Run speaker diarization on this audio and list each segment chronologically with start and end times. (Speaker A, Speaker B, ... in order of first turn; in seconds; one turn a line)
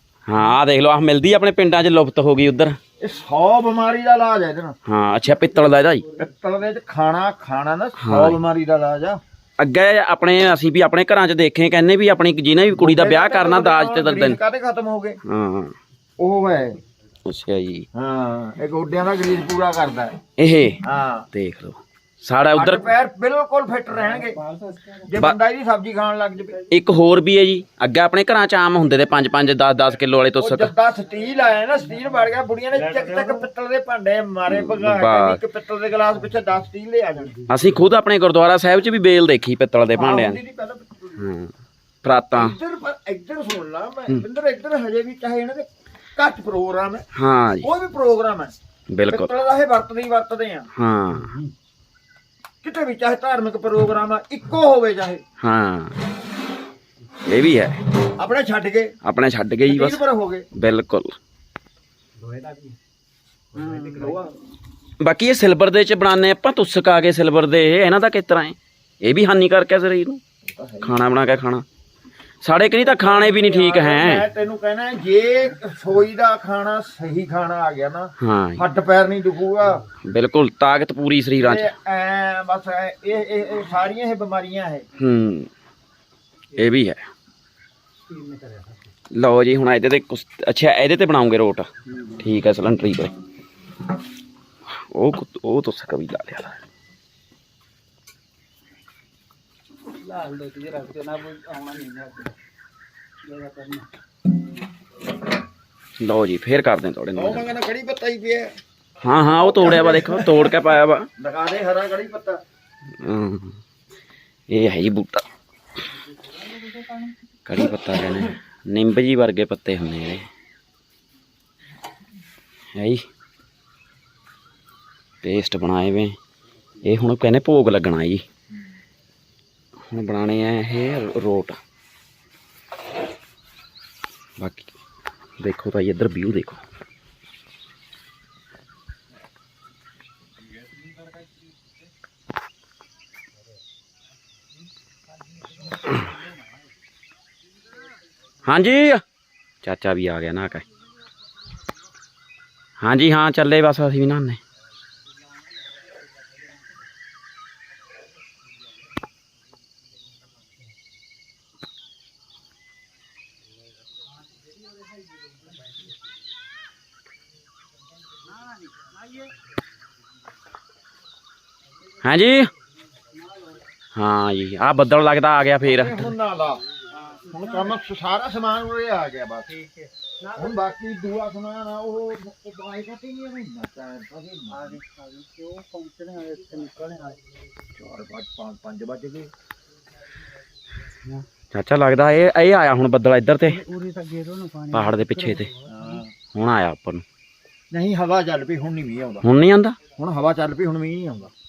Speaker A: 0.2-2.8
Speaker B: 3.0-4.8
Speaker A: 4.8-6.0
Speaker B: 6.1-9.2
Speaker A: 8.0-8.4
Speaker A: 9.6-14.4
Speaker B: 12.7-15.2
Speaker A: 15.2-15.7
Speaker B: 16.2-16.8
Speaker A: 17.2-17.9
Speaker B: 17.9-20.2
Speaker A: 20.4-22.9
Speaker B: 20.8-21.3
Speaker B: 22.5-24.4
Speaker C: 24.0-25.1
Speaker B: 25.0-26.6
Speaker A: 26.7-30.7
Speaker B: 30.4-37.4
Speaker C: 32.9-33.2
Speaker A: 34.5-35.4
Speaker A: 37.5-40.4
Speaker B: 39.9-41.3
Speaker A: 41.2-42.6
Speaker B: 42.3-47.0
Speaker A: 47.1-47.7
Speaker B: 47.6-48.5
Speaker A: 48.9-49.3
Speaker B: 49.1-50.7
Speaker A: 50.7-51.4
Speaker C: 51.2-51.5
Speaker B: 52.6-55.2
Speaker A: 55.4-56.0
Speaker A: 57.2-57.8
Speaker B: 58.1-58.9
Speaker A: 59.0-61.1
Speaker B: 59.7-60.5
Speaker C: 62.2-62.8
Speaker C: 63.5-64.2
Speaker B: 63.5-64.3
Speaker A: 65.0-70.2
Speaker B: 70.5-71.0
Speaker A: 70.8-71.6
Speaker A: 72.4-74.2
Speaker B: 72.8-79.8
Speaker A: 78.2-78.7
Speaker A: 80.0-81.7
Speaker B: 81.4-84.8
Speaker A: 85.0-85.5
Speaker A: 86.5-87.1
Speaker C: 88.0-88.9
Speaker A: 89.1-93.1
Speaker C: 91.9-92.2
Speaker A: 94.7-96.6
Speaker C: 100.0-102.3
Speaker C: 103.2-103.9
Speaker A: 106.0-107.5
Speaker B: 107.1-108.5
Speaker A: 109.0-111.1
Speaker B: 109.3-112.4
Speaker A: 113.0-113.6
Speaker A: 114.5-115.2
Speaker C: 116.5-117.1
Speaker A: 117.4-120.3
Speaker A: 122.7-123.0
Speaker A: 125.2-126.2
Speaker A: 126.8-128.2
Speaker A: 129.9-131.6
Speaker A: 134.4-134.7
Speaker A: 135.4-136.6
Speaker A: 148.4-149.0
Speaker A: 149.6-150.6
Speaker A: 152.8-154.4
Speaker A: 172.0-172.5
Speaker A: 173.9-176.1
Speaker B: 175.6-176.6
Speaker C: 177.0-177.7
Speaker B: 177.2-179.6
Speaker C: 179.7-180.3
Speaker B: 180.3-184.8
Speaker C: 184.5-187.2
Speaker B: 187.7-189.3
Speaker A: 191.5-193.6
Speaker C: 193.6-195.9
Speaker A: 194.7-195.5
Speaker B: 195.6-196.1
Speaker A: 196.3-197.0
Speaker B: 197.7-199.3
Speaker A: 199.2-199.8
Speaker B: 199.9-201.3